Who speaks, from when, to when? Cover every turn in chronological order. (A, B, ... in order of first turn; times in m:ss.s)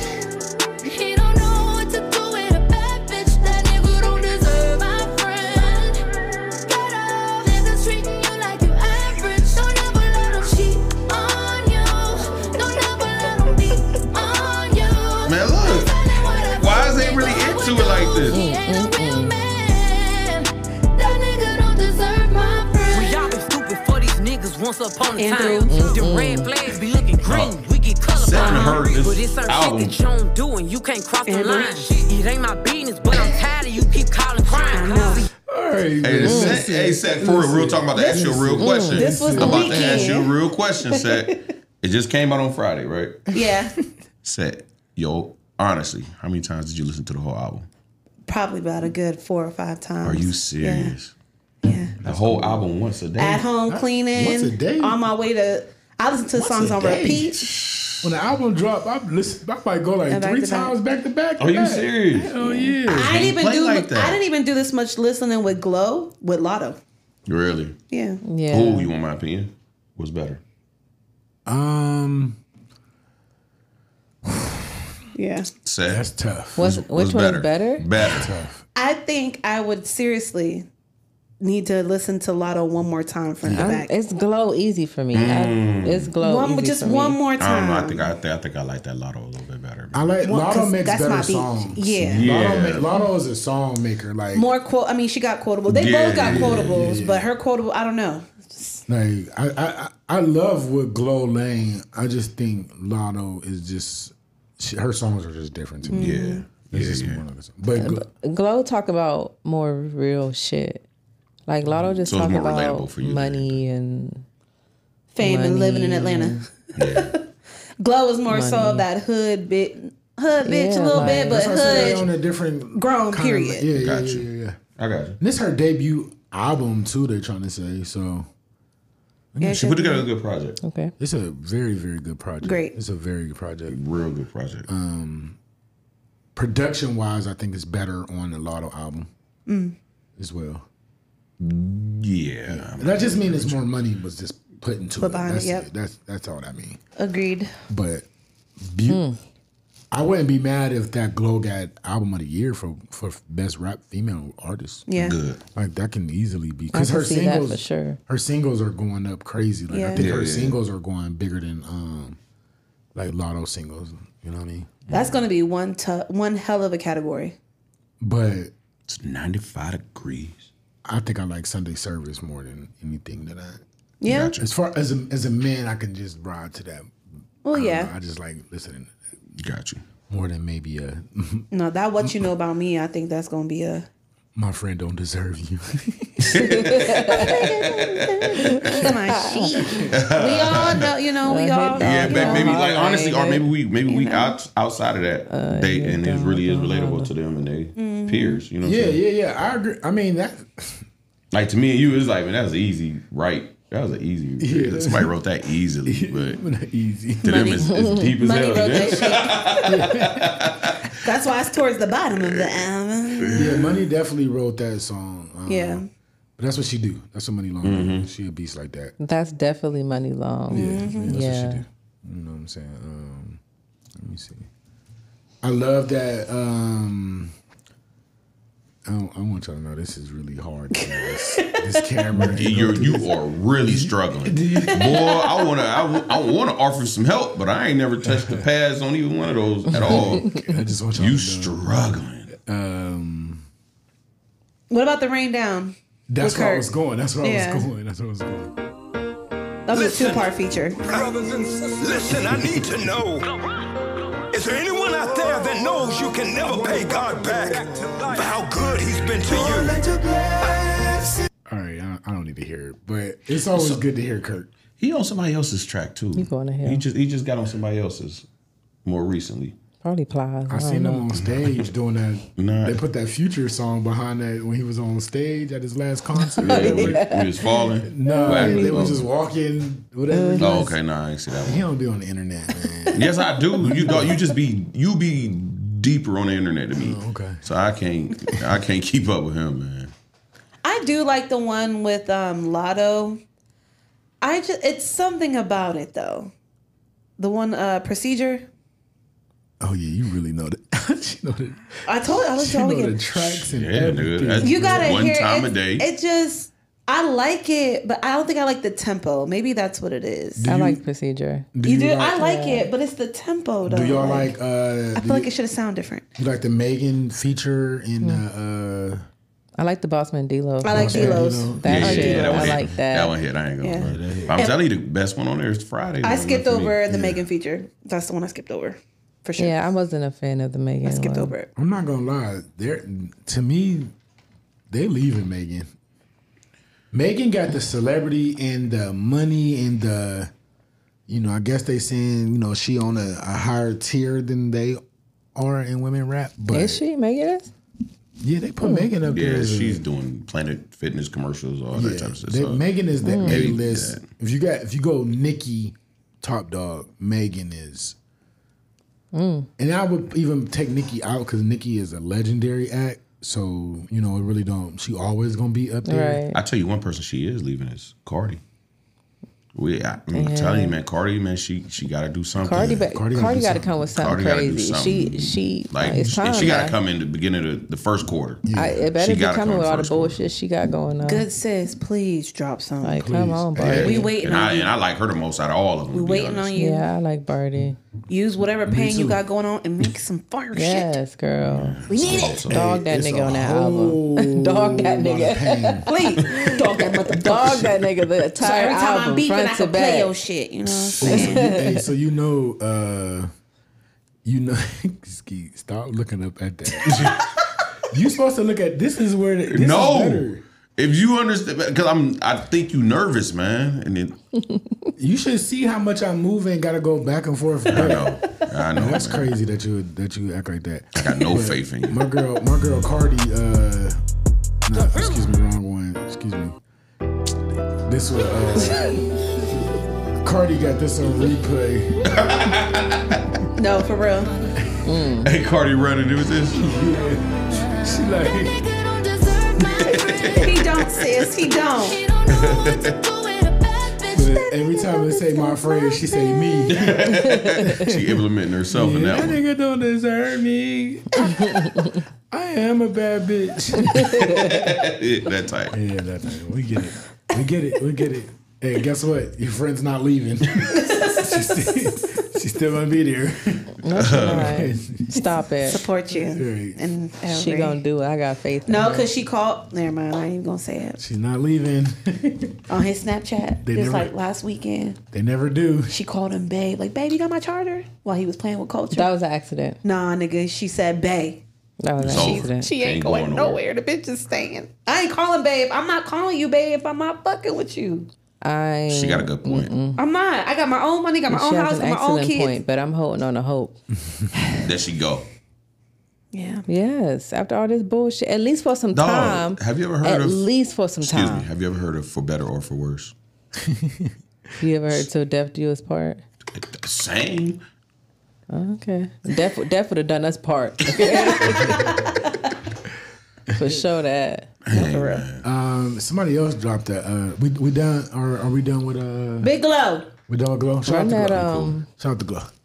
0:00.8-0:23.3 A
0:15.2-0:16.0 B
0:16.6-0:18.5 B
0:18.3-0:19.4 C
0:22.9-0:35.3 D
0:25.2-0:25.8 E
0:25.7-0:26.5 C
0:27.2-0:27.6 B
0:28.1-0:30.0 B
0:28.5-0:28.8 E
0:31.3-0:31.9 E
0:34.6-0:35.3 E
0:35.5-0:40.1 F
0:36.0-0:43.3 B
0:36.2-0:36.6 C
0:38.0-0:38.3 E
0:38.6-0:39.1 C
0:38.8-0:40.3 E
0:43.3-0:43.8 E
0:44.2-0:47.7 B
0:48.3-0:51.0 E
0:50.0-0:51.1 B
0:51.6-0:52.0 E
0:52.0-0:52.7 F
0:52.0-0:53.5 B
0:53.2-0:57.5 E
0:53.7-0:55.0 F
0:56.4-0:57.3 F
0:57.4-0:58.0 B
0:58.0-1:03.2 F
1:00.1-1:00.8 E
1:01.4-1:02.4 B
1:02.4-1:02.8 C
1:02.8-1:06.8 E
1:02.9-1:04.2 B
1:07.3-1:07.8 B
1:07.9-1:08.2 E
1:08.2-1:08.9 C
1:08.5-1:10.4 B
1:11.5-1:12.4 F
1:15.1-1:15.5 E
1:15.6-1:16.1 B
1:15.9-1:16.7 F
1:16.6-1:17.9 C
1:16.6-1:18.3 B
1:18.1-1:18.6 F
1:18.8-1:20.7 E
1:21.4-1:23.9 E
1:23.4-1:23.8 F
1:23.5-1:27.2 C
1:25.1-1:26.1 B
1:26.2-1:28.1 E
1:27.4-1:30.1 B
1:29.9-1:34.5 F
1:30.2-1:32.4 E
1:32.1-1:32.9 B
1:34.3-1:38.8 E
1:35.7-1:36.9 B
1:36.2-1:37.3 F
1:38.9-1:48.0 F
1:45.9-1:46.5 E
1:46.0-1:47.2 B
1:47.8-1:50.8 C
1:51.5-1:54.2 C
1:52.0-1:53.6 B
1:55.1-1:57.2 E
1:55.2-1:56.4 C
1:56.8-1:57.1 B
1:57.8-2:02.0 E
1:58.3-1:58.9 C
2:00.4-2:02.0 C
2:01.0-2:04.6 F
2:02.8-2:03.7 E
2:03.8-2:05.2 B
2:05.2-2:08.3 F
2:09.3-2:09.8 F
2:09.4-2:10.1 E
2:09.6-2:10.6 B
2:10.6-2:10.9 C
2:11.0-2:13.8 F
2:12.4-2:12.8 E
2:13.7-2:14.7 B
2:14.7-2:15.4 F
2:16.4-2:19.1 F
2:19.5-2:19.8 E
2:20.2-2:20.7 F
2:21.4-2:23.7 B
2:22.5-2:26.8 F
2:25.0-2:25.7 E
2:27.0-2:27.5 E
2:27.7-2:28.1 F
2:28.6-2:29.0 F
2:28.9-2:29.2 C
2:29.9-2:34.9 F
2:34.9-2:35.2 E
2:35.0-2:35.4 B
2:35.5-2:42.2 F
2:36.7-2:38.0 C
2:39.7-2:40.2 E
2:40.0-2:40.6 B
2:43.0-2:44.8 F
2:44.9-2:45.2 B
2:44.9-2:47.4 E
2:48.0-2:48.5 F
2:48.9-2:50.5 B
2:50.9-2:53.6 F
2:54.0-2:54.4 E
2:54.1-2:54.4 B
2:54.4-2:56.9 F
2:57.4-2:57.9 E
2:57.5-2:59.0 F
2:59.4-2:59.8 B
3:00.1-3:02.3 F
3:01.5-3:03.9 E
3:04.4-3:06.5 F
3:06.3-3:08.3 B
3:06.4-3:09.6 C
3:08.0-3:12.6 E
3:09.5-3:10.0 F
3:09.9-3:10.9 B
3:11.2-3:13.5 C
3:11.8-3:19.0 B
3:13.8-3:14.4 E
3:15.3-3:17.1 C
3:17.8-3:18.4 E
3:18.6-3:20.9 F
3:21.3-3:26.4 B
3:24.4-3:25.2 F
3:25.8-3:27.6 F
3:27.2-3:31.0 B
3:27.3-3:29.8 E
3:27.7-3:28.1 C
3:29.7-3:30.4 F
3:31.0-3:33.6 E
3:32.1-3:33.5 B
3:33.3-3:35.8 F
3:35.5-3:35.8 E
3:36.4-3:38.9 F
3:37.6-3:38.1 B
3:39.0-3:41.6 C
3:40.5-3:41.1 E
3:40.5-3:43.4 F
3:44.0-3:44.5 F
3:45.4-3:47.3 F
3:48.9-3:53.1 F
3:50.8-3:51.6 E
3:52.2-4:02.3 B
3:53.6-3:55.0 F
3:54.7-3:56.1 E
3:58.0-3:58.5 F
3:59.7-4:03.4 F
4:00.0-4:00.4 C
4:04.7-4:06.7 E
4:06.1-4:08.5 F
4:07.2-4:07.7 E
4:09.7-4:10.8 E
4:09.7-4:10.3 G
4:10.8-4:13.3 G
4:12.1-4:12.9 F
4:14.3-4:20.9 G
4:19.5-4:20.3 F
4:21.5-4:24.5 F
4:23.5-4:23.8 B
4:24.8-4:28.3 B
4:26.2-4:26.9 C
4:28.8-4:29.6 B
4:29.8-4:31.1 C
4:30.5-4:37.1 F
4:31.2-4:31.6 B
4:32.4-4:32.8 B
4:36.2-4:39.0 C
4:36.4-4:39.0 B
4:37.9-4:40.8 F
4:40.1-4:40.7 C
4:40.4-4:41.7 B
4:41.4-4:44.2 F
4:42.9-4:49.9 B
4:46.8-4:47.5 F
4:50.6-4:53.2 E
4:54.2-4:56.3 E
4:57.2-4:58.5 E
4:59.6-5:05.1 F
5:01.9-5:03.1 E
5:03.2-5:05.9 B
5:04.4-5:10.4 E
5:10.4-5:10.8 F
5:10.4-5:11.5 C
5:11.5-5:12.3 F
5:11.6-5:14.3 E
5:12.2-5:12.7 C
5:13.7-5:15.3 F
5:15.0-5:16.0 E
5:16.2-5:19.0 F
5:19.6-5:23.2 C
5:20.6-5:22.5 E
5:20.7-5:22.6 F
5:21.6-5:27.2 B
5:23.6-5:24.6 E
5:23.8-5:24.4 F
5:26.0-5:29.6 E
5:29.4-5:31.3 C
5:30.8-5:31.5 E
5:31.6-5:33.9 F
5:34.7-5:35.7 F
5:36.9-5:40.3 F
5:41.1-5:44.8 F
5:45.4-5:46.8 F
5:46.5-5:47.5 C
5:48.2-5:49.8 F
5:48.6-5:48.9 C
5:49.1-5:52.6 B
5:51.7-5:58.0 F
5:53.0-5:53.6 C
5:53.2-5:54.0 B
5:59.1-5:59.5 C
5:59.6-6:06.2 F
6:05.9-6:06.4 C
6:06.3-6:08.4 B
6:09.5-6:12.9 B
6:10.1-6:10.8 C
6:12.4-6:16.8 C
6:12.6-6:13.9 F
6:13.9-6:18.4 B
6:18.4-6:18.9 F
6:18.5-6:21.3 C
6:19.0-6:20.3 B
6:21.0-6:23.0 E
6:22.8-6:24.2 C
6:23.0-6:24.0 F
6:23.6-6:26.5 B
6:23.6-6:24.8 E
6:25.9-6:26.9 E
6:26.6-6:27.8 C
6:28.1-6:31.0 E
6:28.7-6:29.2 F
6:30.5-6:31.8 C
6:31.5-6:32.8 B
6:31.9-6:32.5 E
6:32.4-6:40.1 C
6:32.5-6:35.9 F
6:35.9-6:37.8 E
6:37.4-6:37.8 F
6:38.4-6:41.4 E
6:40.7-6:41.3 B
6:41.0-6:43.3 F
6:41.0-6:41.7 C
6:44.2-6:47.1 F
6:46.8-6:47.4 B
6:47.9-6:50.4 F
6:49.5-6:54.2 B
6:55.0-6:58.2 F
6:57.7-6:59.3 B
6:58.8-7:04.0 F
7:01.0-7:02.0 B
7:04.6-7:06.6 F
7:04.7-7:05.2 D
7:07.8-7:09.0 F
7:10.2-7:12.1 F
7:12.1-7:13.3 B
7:13.6-7:14.3 E
7:14.8-7:15.3 C
7:15.2-7:16.7 B
7:16.5-7:18.6 F
7:17.6-7:20.4 A
7:19.6-7:21.5 B
7:20.4-7:22.0 E
7:21.5-7:26.7 A
7:22.2-7:23.0 B
7:24.1-7:28.1 F
7:26.7-7:29.4 B
7:27.2-7:27.6 C
7:28.7-7:34.7 F
7:34.4-7:35.8 B
7:35.7-7:45.4 F
7:40.7-7:41.4 E
7:43.8-7:45.9 C
7:44.0-7:44.7 B
7:45.7-7:47.8 E
7:46.1-7:46.8 F
7:47.3-7:49.1 C
7:48.7-7:51.0 E
7:51.0-7:52.7 F
7:52.7-7:55.0 E
7:53.6-7:54.1 F
7:55.1-7:56.0 F
7:55.9-7:59.1 E
7:58.9-7:59.8 C
7:59.8-8:01.4 E
8:01.8-8:02.7 C
8:02.0-8:03.6 B
8:02.0-8:08.1 E
8:08.4-8:10.0 C
8:08.9-8:09.8 B
8:10.0-8:12.6 E
8:11.3-8:13.9 C
8:14.6-8:15.3 B
8:16.3-8:16.6 E
8:16.7-8:21.5 C
8:18.9-8:20.5 B
8:21.0-8:23.2 B
8:23.6-8:24.1 F
8:24.6-8:26.2 C
8:26.5-8:27.6 B
8:28.5-8:31.8 C
8:30.9-8:32.2 E
8:31.4-8:32.3 F
8:33.5-8:35.2 C
8:34.6-8:35.5 B
8:34.7-8:35.2 E
8:35.4-8:39.5 F
8:39.4-8:40.1 E
8:40.3-8:42.5 F
8:40.8-8:41.9 C
8:41.4-8:41.8 B